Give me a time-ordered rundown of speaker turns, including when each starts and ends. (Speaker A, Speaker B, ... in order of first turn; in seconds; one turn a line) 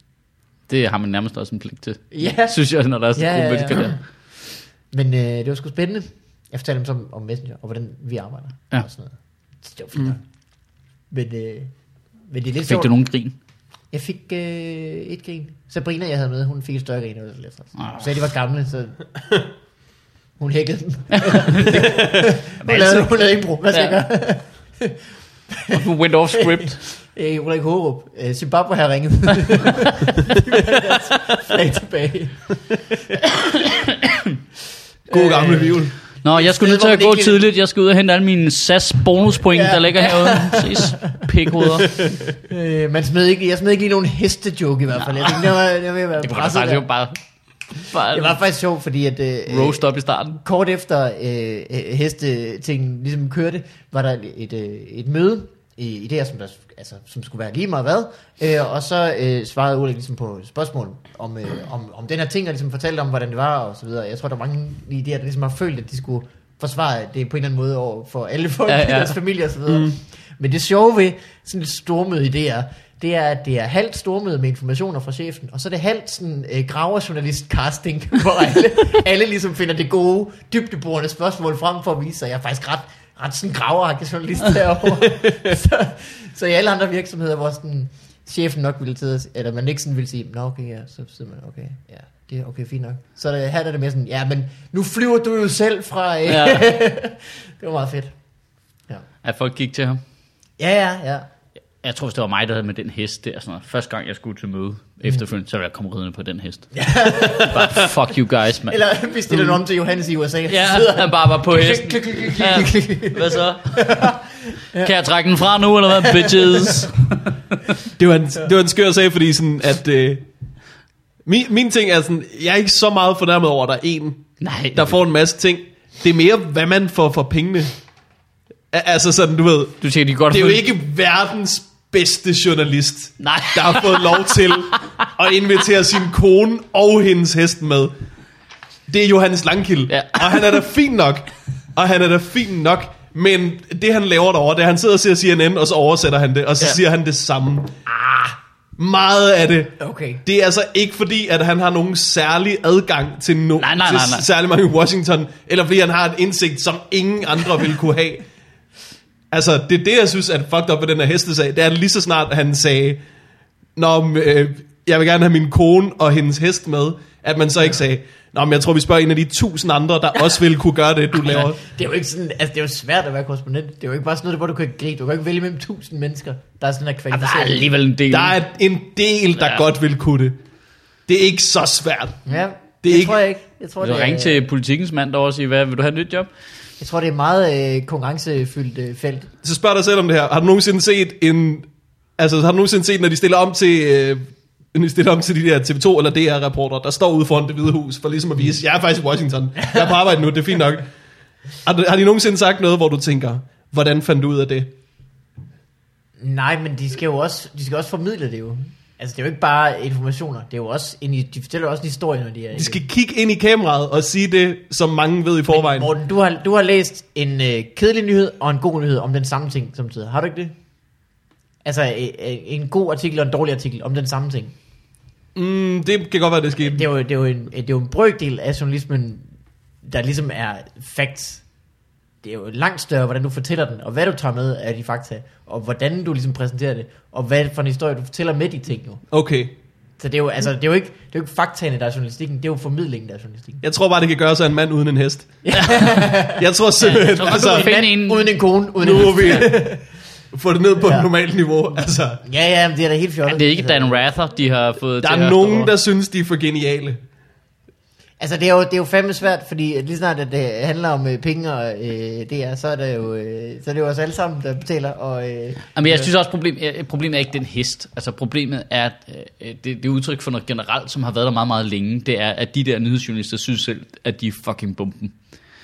Speaker A: 0.7-4.0
Speaker B: 2.1-2.6
Speaker B: 3.1-4.0
Speaker B: 4.9-10.2
Speaker B: 11.1-11.7
Speaker B: 12.3-12.9
Speaker A: 12.7-13.4
Speaker B: 13.9-19.1
Speaker A: 17.8-18.0
Speaker B: 20.4-32.5
Speaker A: 21.1-22.0
Speaker A: 22.6-24.0
Speaker A: 25.7-26.8
Speaker A: 33.5-34.2
Speaker B: 35.1-37.4
Speaker C: 35.1-35.9
Speaker A: 36.2-42.0
Speaker B: 39.5-41.1
Speaker B: 42.3-46.9
Speaker A: 46.2-47.2
Speaker A: 47.8-48.4
Speaker B: 47.9-49.8
Speaker A: 49.5-50.4
Speaker B: 50.4-98.1
Speaker A: 68.7-69.1
Speaker C: 69.7-69.9
Speaker A: 96.2-96.7
Speaker A: 99.2-100.0
Speaker B: 100.6-101.2
Speaker A: 101.8-108.8
Speaker B: 106.7-107.9
Speaker B: 108.7-114.9
Speaker A: 110.5-113.8
Speaker A: 114.8-117.1
Speaker B: 115.9-116.9
Speaker C: 118.0-120.2
Speaker C: 121.2-127.7
Speaker A: 124.4-125.0
Speaker C: 128.7-137.9
Speaker A: 129.8-130.6
Speaker A: 133.2-135.1
Speaker C: 138.9-147.8
Speaker A: 139.9-140.6
Speaker B: 147.9-148.4
Speaker C: 148.8-158.2
Speaker B: 149.8-150.2
Speaker A: 153.6-154.2
Speaker C: 159.3-163.0
Speaker C: 163.8-171.6
Speaker B: 171.2-177.7
Speaker A: 177.1-178.4
Speaker C: 178.1-180.4
Speaker A: 179.4-179.6
Speaker C: 181.1-182.2
Speaker B: 182.2-184.4
Speaker C: 182.8-183.2
Speaker A: 183.8-186.3
Speaker B: 186.8-189.3
Speaker C: 189.4-200.9
Speaker C: 201.6-204.7
Speaker B: 206.2-212.8
Speaker C: 212.6-215.9
Speaker B: 215.5-220.6
Speaker B: 221.6-224.5
Speaker C: 225.4-226.9
Speaker B: 226.6-229.2
Speaker B: 229.8-231.4
Speaker B: 232.2-239.0
Speaker C: 239.1-239.5
Speaker B: 240.0-243.6
Speaker C: 243.6-245.5
Speaker B: 245.4-246.4
Speaker A: 245.5-246.0
Speaker C: 246.2-247.7
Speaker A: 246.8-248.3
Speaker B: 247.2-249.8
Speaker C: 248.8-249.8
Speaker C: 250.3-252.2
Speaker B: 250.8-251.1
Speaker B: 252.2-254.0
Speaker A: 253.3-255.7
Speaker C: 255.0-257.0
Speaker B: 258.2-266.1
Speaker A: 265.7-275.1